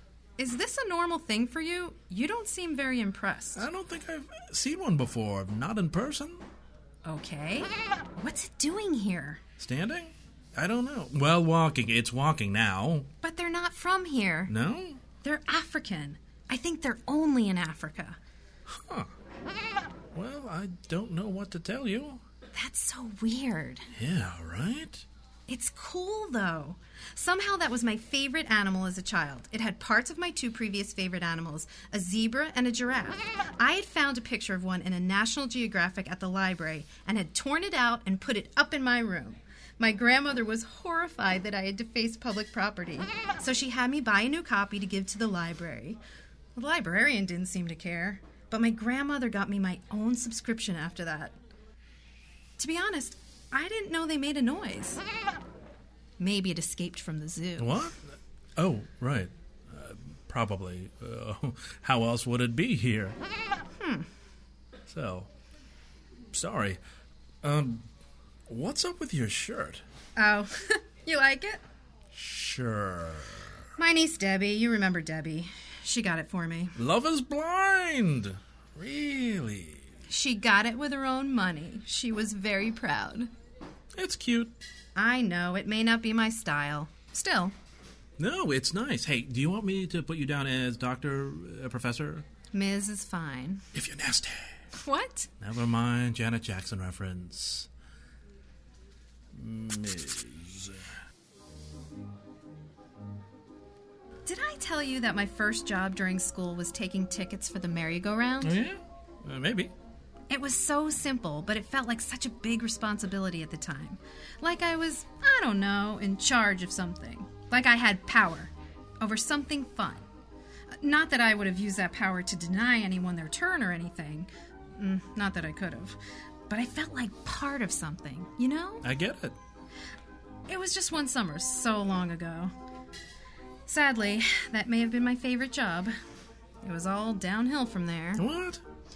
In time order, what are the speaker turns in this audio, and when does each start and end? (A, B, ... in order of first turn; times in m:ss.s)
0:00.4-0:03.7 A
0:03.6-0:06.4 B
0:07.0-0:09.4 A
0:09.6-0:13.1 B
0:13.2-0:14.5 A
0:14.5-0:15.0 B
0:15.2-0:18.2 A
0:18.7-0:19.1 B
0:20.1-0:22.2 B
0:22.5-0:23.9 A
0:23.9-0:25.0 B
0:25.5-0:46.0 A
0:46.6-0:51.3 A
0:52.6-0:55.0 A
0:56.2-0:57.8 A
0:57.6-1:03.2 B
1:03.8-1:04.1 A
1:04.9-1:05.3 B
1:06.3-1:06.8 B
1:07.4-1:07.9 B
1:08.5-1:09.8 B
1:10.2-1:11.6 A
1:12.1-1:13.6 B
1:13.8-1:16.8 A
1:16.8-1:19.9 B
1:20.1-1:23.3 A
1:23.9-1:24.5 B
1:25.0-1:27.5 A
1:28.2-1:32.2 B
1:32.5-1:33.6 A
1:33.7-1:34.6 B
1:34.8-1:35.3 A
1:35.4-1:37.7 B
1:39.3-1:41.0 B
1:44.2-1:48.6 A
1:48.4-1:49.7 B
1:50.3-2:00.0 A
2:00.8-2:06.0 A
2:06.5-2:08.8 A
2:08.8-2:09.4 B
2:10.5-2:12.5 A
2:13.7-2:15.9 A
2:16.6-2:18.2 A
2:18.2-2:18.6 B